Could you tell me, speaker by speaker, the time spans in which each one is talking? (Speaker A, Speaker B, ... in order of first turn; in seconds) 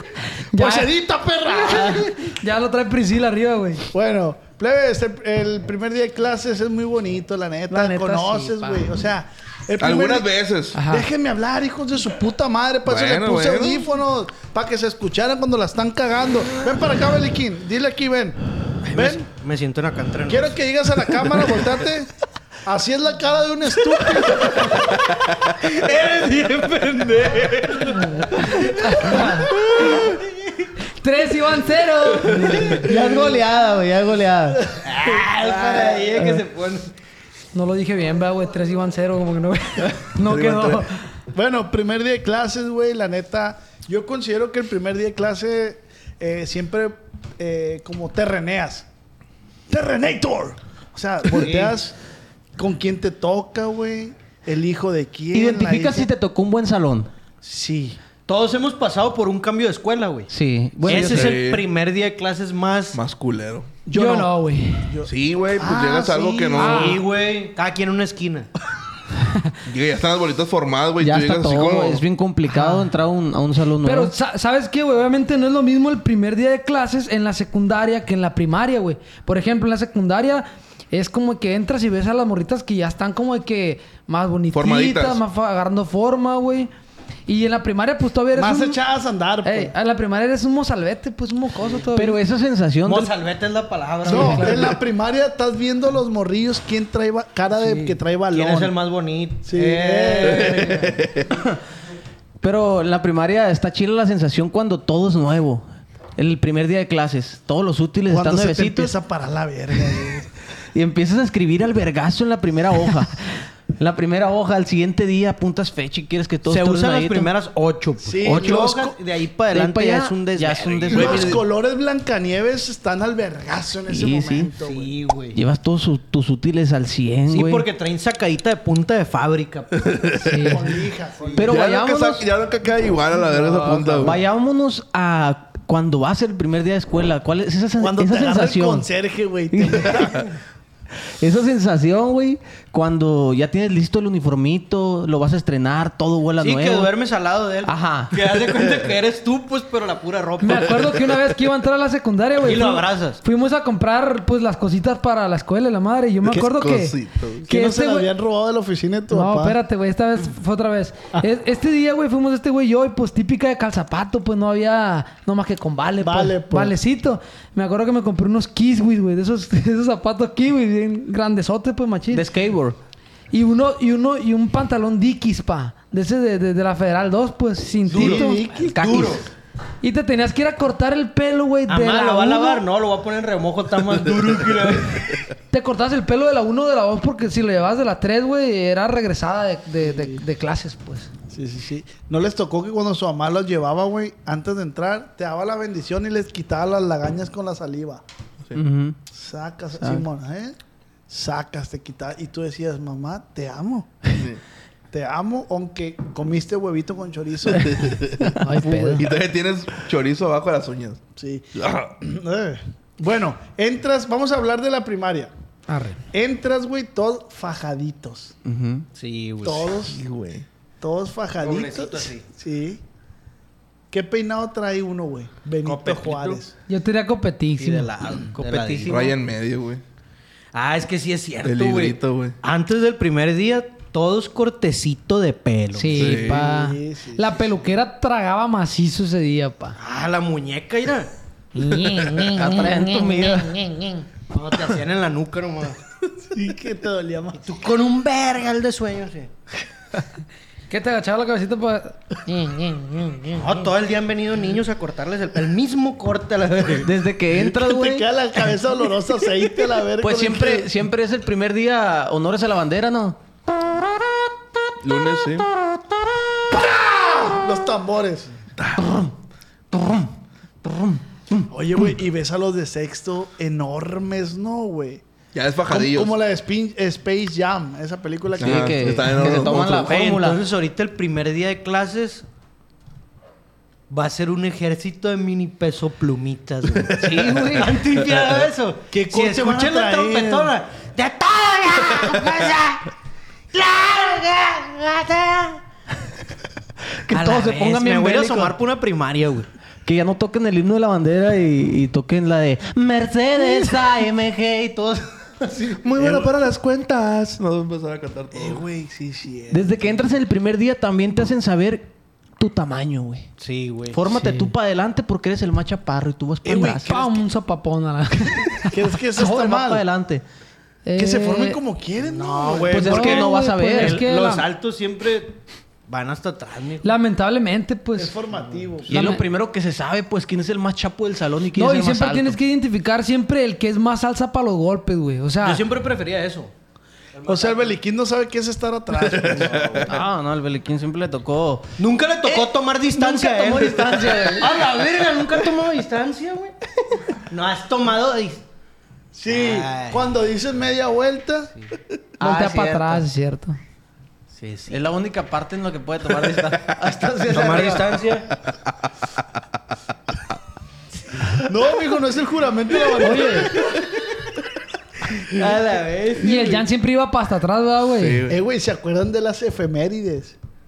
Speaker A: 0.5-0.9, 1.5-3.9, 7.7-8.9, 10.7-11.1, 28.2-29.5, 31.0-32.8, 37.5-41.0, 63.9-64.9, 66.6-67.0, 72.5-72.9, 73.8-86.7, 87.3-88.8, 89.4-92.2, 94.0-94.7, 130.2-130.6, 150.4-158.1, 159.1-172.3, 173.3-178.4, 179.8-182.6, 185.5-191.1, 208.4-209.0, 215.7-216.0, 226.7-227.9, 235.7-239.8, 241.6-244.0, 250.7-253.4, 287.0-287.7, 316.9-319.4, 320.9-321.6, 322.7-324.5, 326.8-328.2, 328.9-329.2, 331.6-335.6, 352.2-353.6, 363.0-363.5, 366.2-368.3
Speaker B: 0.5-2.1, 3.9-18.4, 18.9-19.2, 20.3-22.1, 22.6-24.9, 32.9-33.2, 34.6-36.1, 41.3-48.9, 49.7-52.0, 52.6-56.1, 57.4-58.0, 63.9-67.0, 88.3-89.7, 94.0-98.8, 99.5-100.8, 108.1-110.3, 118.0-119.0, 120.9-124.9, 130.4-131.4, 137.8-140.3, 157.4-159.6, 166.0-166.8, 177.9-179.2, 189.8-190.2, 191.3-198.0, 199.1-200.6, 201.1-204.0, 204.9-207.9, 211.2-215.3, 216.1-218.3, 219.4-220.0, 220.8-222.8, 223.9-226.5, 236.3-237.7, 246.3-247.4, 257.4-260.7, 266.5-268.3, 271.5-275.0, 275.7-279.3, 288.9-290.5, 306.0-306.3, 308.3-309.8, 316.4-317.2, 318.6-319.8, 321.0-323.3, 328.0-328.9, 337.2-340.0, 349.1-351.5, 361.5-363.7, 368.3-370.4
Speaker C: 9.8-10.8, 12.8-13.9, 40.1-40.8, 60.9-61.6, 62.9-63.7, 65.0-67.0, 69.7-72.0, 84.5-85.2, 100.4-101.3, 120.9-121.4, 129.8-130.3, 131.4-134.2, 156.3-157.4, 204.1-204.4, 207.5-211.0, 211.6-211.9, 219.9-220.4, 228.8-229.8, 231.4-232.4, 235.9-236.4, 264.8-265.5, 275.3-276.2, 278.4-279.9, 305.7-308.6, 339.0-339.9, 368.0-368.4
Speaker D: 18.9-20.6, 24.3-24.8, 25.6-30.2, 32.8-33.4, 34.8-36.9, 51.3-51.8, 58.3-60.3, 60.9-63.0, 66.7-68.5, 92.8-94.8, 97.5-101.0, 116.5-121.3, 124.6-125.4, 127.3-129.8, 131.2-131.5, 133.5-134.1, 146.4-150.9, 152.4-153.2, 177.9-178.2, 178.8-179.2, 181.7-185.2, 219.0-219.7, 221.4-222.2, 225.6-226.4, 227.6-229.1, 230.5-236.2, 239.8-241.1, 244.3-245.8, 247.4-249.3, 253.4-256.9, 279.6-282.2, 283.9-286.9, 287.6-292.9, 293.5-295.6, 297.1-299.5, 313.4-314.5, 322.0-325.4, 325.9-326.9, 335.4-336.5, 337.2-337.7, 341.8-346.6, 347.3-348.4, 349.3-350.1, 354.3-354.8, 357.2-358.3, 365.3-366.6
Speaker E: 32.7-34.6, 55.3-57.1, 60.3-61.4, 71.0-74.1, 91.9-93.1, 102.4-105.7, 106.2-109.0, 110.7-117.3, 118.2-118.6, 119.5-121.4, 123.9-124.5, 125.3-127.7, 131.4-132.3, 134.0-138.9, 139.5-140.2, 141.2-146.9, 147.7-148.2, 172.1-172.8, 178.7-179.2, 198.5-199.0, 199.8-200.1, 218.4-218.9, 228.3-229.2, 242.2-243.6, 256.8-258.1, 260.0-263.2, 268.8-269.1, 269.7-271.5, 278.4-280.4, 287.0-287.4, 297.1-298.6, 299.9-305.0, 309.5-313.3, 313.9-316.9, 319.2-320.2, 322.7-324.0, 328.9-332.4, 339.9-341.7, 342.2-344.6, 352.2-353.1, 354.7-358.0